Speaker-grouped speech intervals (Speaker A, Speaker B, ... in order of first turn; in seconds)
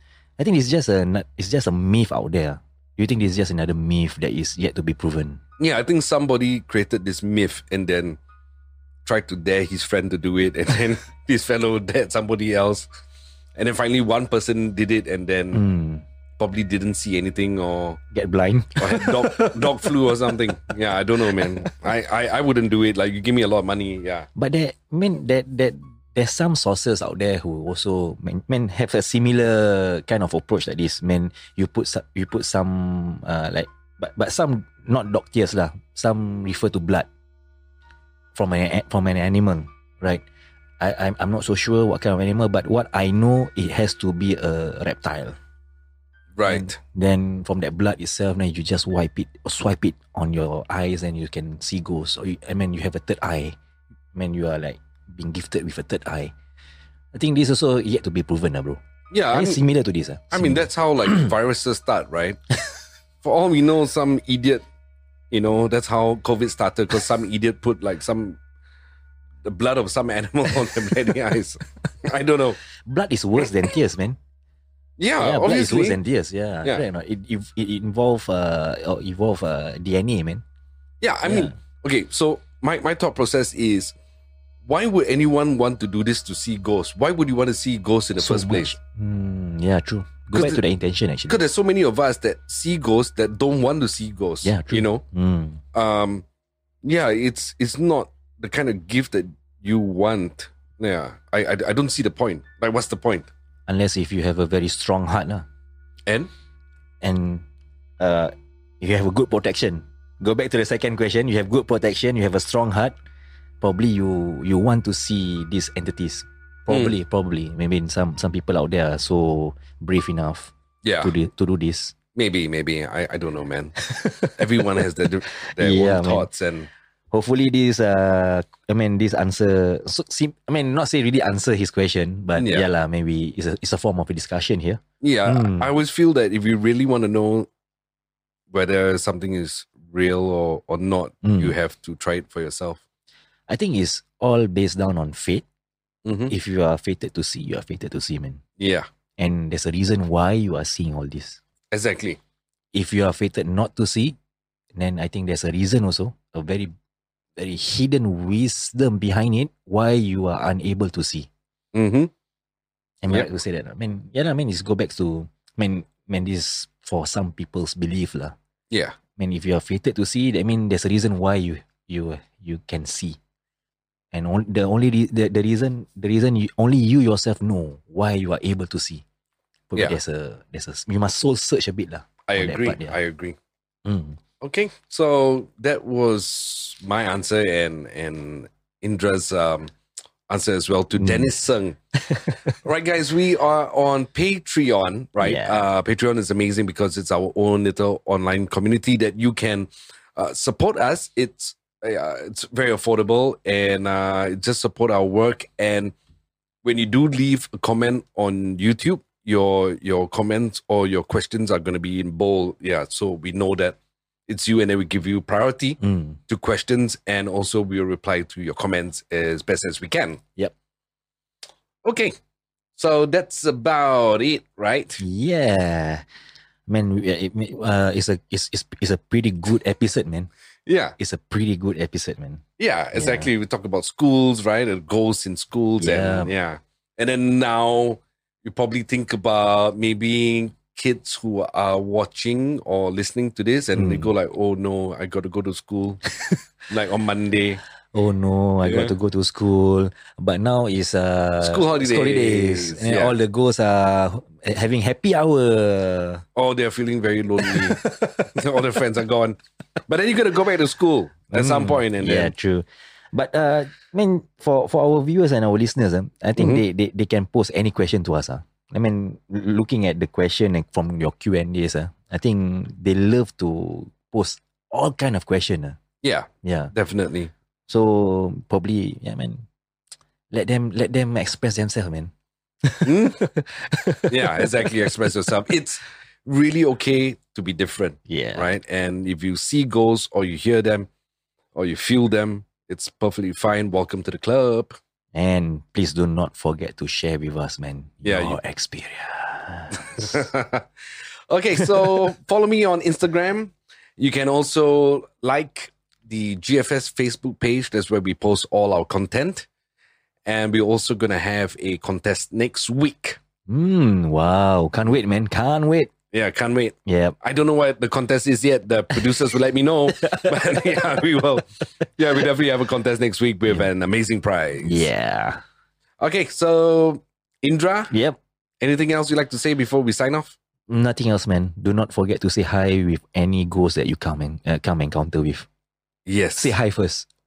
Speaker A: 0.4-5.4, 15.5-16.1, 18.1-21.7, 24.4-37.1, 38.4-40.2, 40.8-45.4, 46.5-53.6, 54.1-56.3, 57.1-61.3, 72.8-74.2, 75.2-80.4, 81.2-81.5, 88.2-91.4, 94.4-95.6, 103.7-105.5, 107.0-107.5, 108.0-113.0, 113.6-122.0, 123.9-124.8, 125.5-126.3, 127.1-135.7, 141.2-141.5, 143.5-145.4, 146.3-148.4, 149.2-151.4, 152.7-154.2, 154.7-156.7, 157.4-161.3, 163.0-168.4, 169.2-173.2, 174.1-179.0, 179.7-183.0, 183.9-184.2, 191.0-191.3, 192.0-192.6, 195.2-195.7, 215.8-216.2, 225.0-226.1, 226.7-230.3, 231.0-232.4, 232.9-233.3, 235.8-236.3, 243.8-244.1, 247.9-256.2, 257.4-258.3, 261.3-275.8, 276.4-276.7, 277.7-279.5, 280.3-282.1, 282.6-284.9, 288.1-288.5, 295.1-300.3, 301.6-301.9, 313.5-315.9, 316.9-317.1, 318.9-319.3, 319.9-321.4, 324.6-325.4, 327.9-328.2, 330.7-335.5, 336.4-337.1
Speaker B: 5.6-8.2, 9.1-12.9, 13.6-15.6, 16.4-18.0, 18.8-24.3, 46.4-46.8, 59.1-59.6, 60.3-62.5, 63.2-64.6, 65.3-68.4, 69.5-72.6, 75.0-76.0, 81.0-83.9, 84.7-88.8, 90.3-90.6, 91.3-95.0, 95.7-96.2, 96.8-103.3, 116.7-117.0, 120.8-121.2, 122.2-123.8, 124.3-126.7, 132.4-132.7, 135.0-137.5, 138.5-142.8, 146.1-146.3, 148.6-148.9, 151.7-152.2, 161.7-162.1, 168.7-169.0, 182.3-183.4, 184.4-189.7, 190.3-191.8, 192.6-205.9, 206.6-213.8, 214.3-220.2, 221.8-222.1, 222.8-225.0, 230.7-231.0, 232.6-246.1, 246.7-247.6, 248.6-248.9, 251.4-253.2, 256.4-257.8, 258.3-262.3, 266.4-266.6, 276.0-277.3, 282.9-283.2, 284.1-290.9, 291.6-294.8, 298.1-298.4, 300.0-300.6, 301.3-309.5, 310.3-313.2, 316.1-324.9, 326.0-327.9, 328.6-330.4, 336.1-336.6